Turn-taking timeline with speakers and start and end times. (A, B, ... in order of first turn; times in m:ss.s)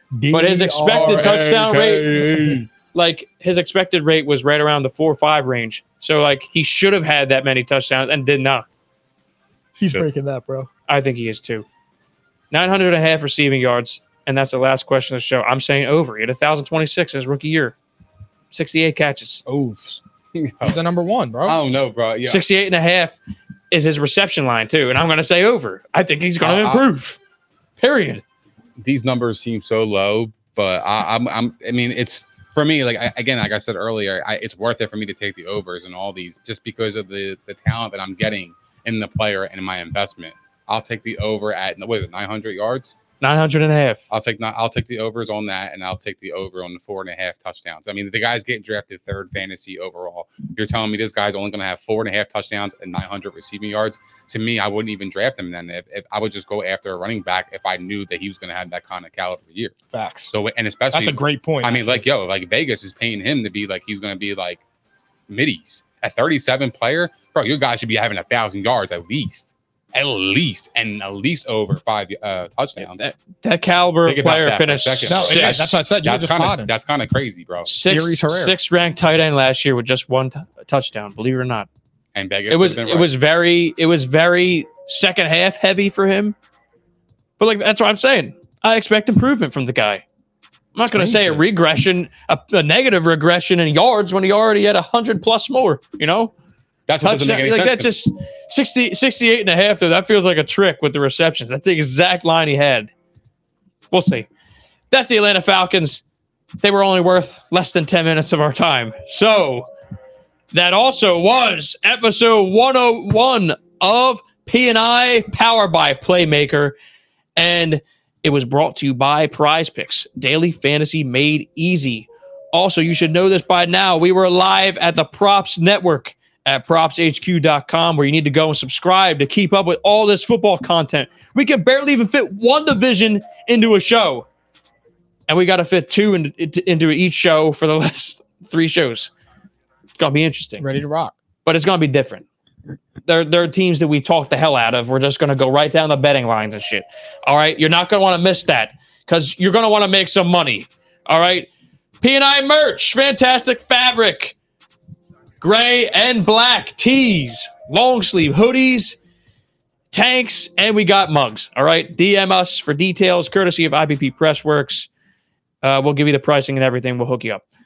0:00.1-0:01.4 A
0:00.3-0:02.2 B
0:00.9-0:02.7 C
0:02.9-0:08.6 B
0:09.8-0:10.7 A
0:10.9-0:11.6 B
0:12.5-0:17.8 B
0:18.5-0:19.4 B
0:19.4-0:20.0 A
0:20.3-0:20.8 C
0:20.6-0:21.6 A
0:21.4-0:22.4 C
0:22.2-0:23.2 B
0:23.7-0:27.2 B
0:26.4-0:26.8 C
0:27.8-0:28.2 B
0:28.8-0:43.0 C
0:43.2-0:44.0 B
0:44.1-0:59.7 C
0:59.9-1:00.3 A
1:00.3-1:04.6 C
1:00.9-1:02.0 A
1:05.3-1:13.0 C
1:12.8-1:15.7 B
1:14.0-1:17.7 C
1:15.1-1:16.7 A
1:17.6-1:21.7 B
1:17.8-1:18.6 A
1:22.1-1:23.1 C
1:22.5-1:26.4 B
1:27.4-1:30.0 B
1:30.7-1:36.3 B
1:30.8-1:31.4 A
1:36.9-1:37.9 C
1:37.0-1:42.9 B
1:43.9-1:44.3 B
1:44.9-1:46.0 B
1:46.6-1:49.7 B
1:50.5-1:56.8 B
1:57.4-2:14.3 B
2:15.3-2:19.1 B
2:20.0-2:20.6 B
2:20.6-2:21.1 A
2:21.4-2:22.2 B
2:23.0-2:31.5 B
2:32.0-2:34.4 B
2:35.4-2:39.0 B
2:39.9-2:44.9 B
2:45.6-2:47.4 B